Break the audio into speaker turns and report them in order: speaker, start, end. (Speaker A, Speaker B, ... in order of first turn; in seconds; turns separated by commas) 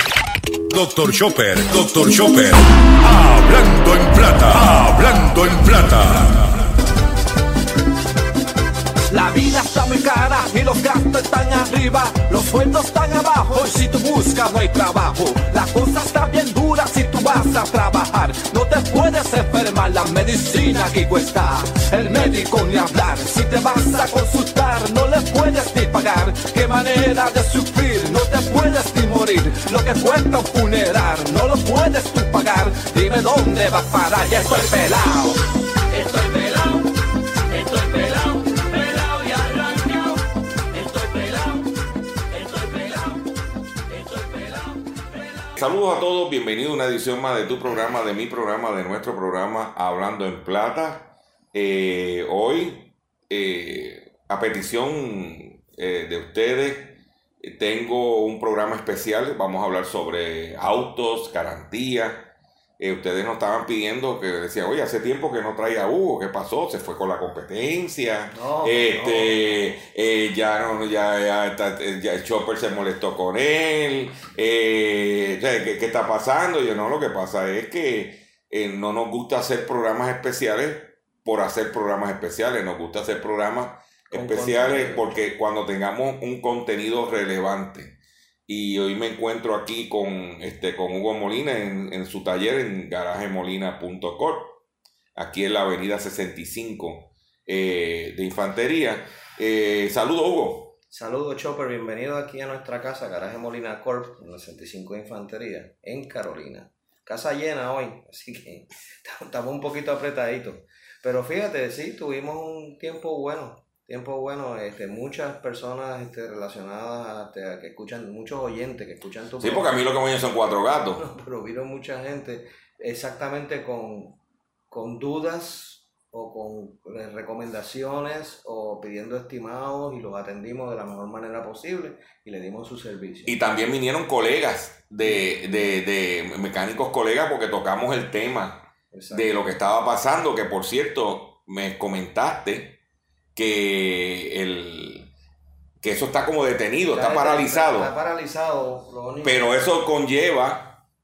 Speaker A: 0.7-6.5, Speaker B: 9.1-36.9, Speaker B: 37.5-41.7, Speaker B: 42.3-43.3, Speaker B: 43.9-45.5, Speaker C: 45.5-88.0, Speaker D: 68.3-69.7, Speaker D: 84.1-85.2, Speaker C: 88.5-94.6, Speaker C: 95.2-100.8, Speaker D: 100.9-119.8, Speaker C: 119.4-121.0, Speaker D: 121.0-124.2, Speaker D: 124.7-133.4, Speaker C: 133.3-142.8, Speaker D: 135.0-135.8, Speaker D: 138.9-139.4, Speaker C: 143.4-145.1, Speaker C: 145.8-147.9, Speaker D: 146.9-149.5, Speaker C: 149.2-150.8